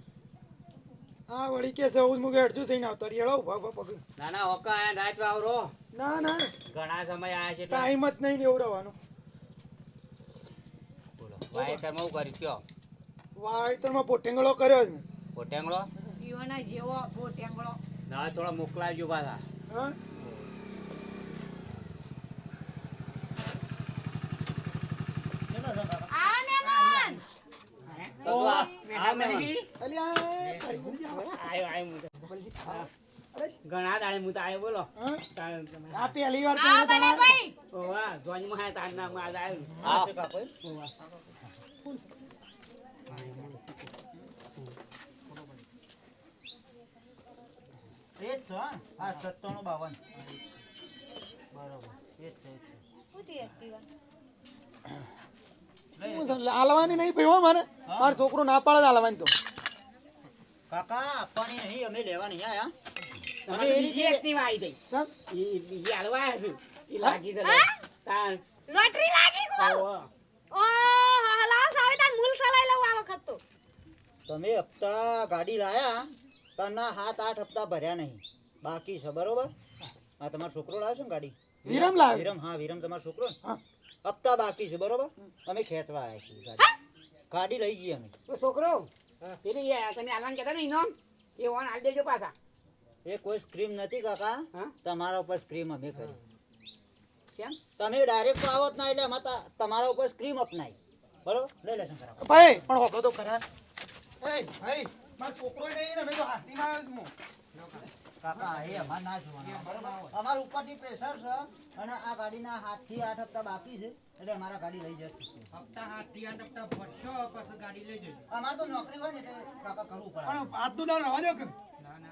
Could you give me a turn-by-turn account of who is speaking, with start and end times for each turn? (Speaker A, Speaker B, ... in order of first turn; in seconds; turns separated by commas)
Speaker A: 1.3-4.0, Speaker B: 4.2-5.7, Speaker A: 5.9-6.5, Speaker B: 6.7-7.9, Speaker A: 7.7-8.9, Speaker B: 11.2-12.6, Speaker A: 11.5-11.8, Speaker A: 13.3-15.0, Speaker B: 15.3-15.9, Speaker C: 16.2-17.8, Speaker B: 18.1-19.4, Speaker A: 19.7-19.9, Speaker D: 25.5-26.1, Speaker C: 26.1-27.2, Speaker D: 26.7-27.0, Speaker E: 27.9-29.6, Speaker B: 28.2-29.6, Speaker D: 28.2-28.7, Speaker C: 28.4-28.7, Speaker A: 29.8-31.4, Speaker D: 30.6-30.9, Speaker E: 31.3-32.9, Speaker A: 32.3-33.6, Speaker E: 33.6-36.1, Speaker A: 35.0-35.2, Speaker A: 35.9-37.4, Speaker C: 36.5-37.5, Speaker E: 37.7-39.9, Speaker D: 39.8-40.5, Speaker E: 40.6-40.9, Speaker E: 43.1-43.7, Speaker D: 48.2-50.0, Speaker D: 51.5-52.8, Speaker C: 53.1-53.8, Speaker D: 56.0-57.0, Speaker A: 56.0-59.3, Speaker D: 57.9-58.2, Speaker D: 60.7-62.7, Speaker D: 63.5-64.2, Speaker E: 63.5-64.8, Speaker E: 65.3-68.4, Speaker C: 67.4-67.7, Speaker C: 68.7-69.8, Speaker E: 69.6-70.1, Speaker C: 70.5-73.4, Speaker D: 74.3-79.5, Speaker D: 80.2-83.4, Speaker A: 81.6-82.3, Speaker D: 84.0-86.6, Speaker D: 87.3-88.1, Speaker E: 88.3-88.9, Speaker E: 89.4-92.3, Speaker D: 93.0-96.2, Speaker E: 97.3-97.6, Speaker D: 97.8-102.2, Speaker A: 102.2-103.4, Speaker A: 104.2-107.1, Speaker F: 107.5-107.9, Speaker D: 108.2-115.5, Speaker F: 109.4-110.1, Speaker F: 115.5-118.2, Speaker D: 118.3-120.5, Speaker A: 120.2-121.5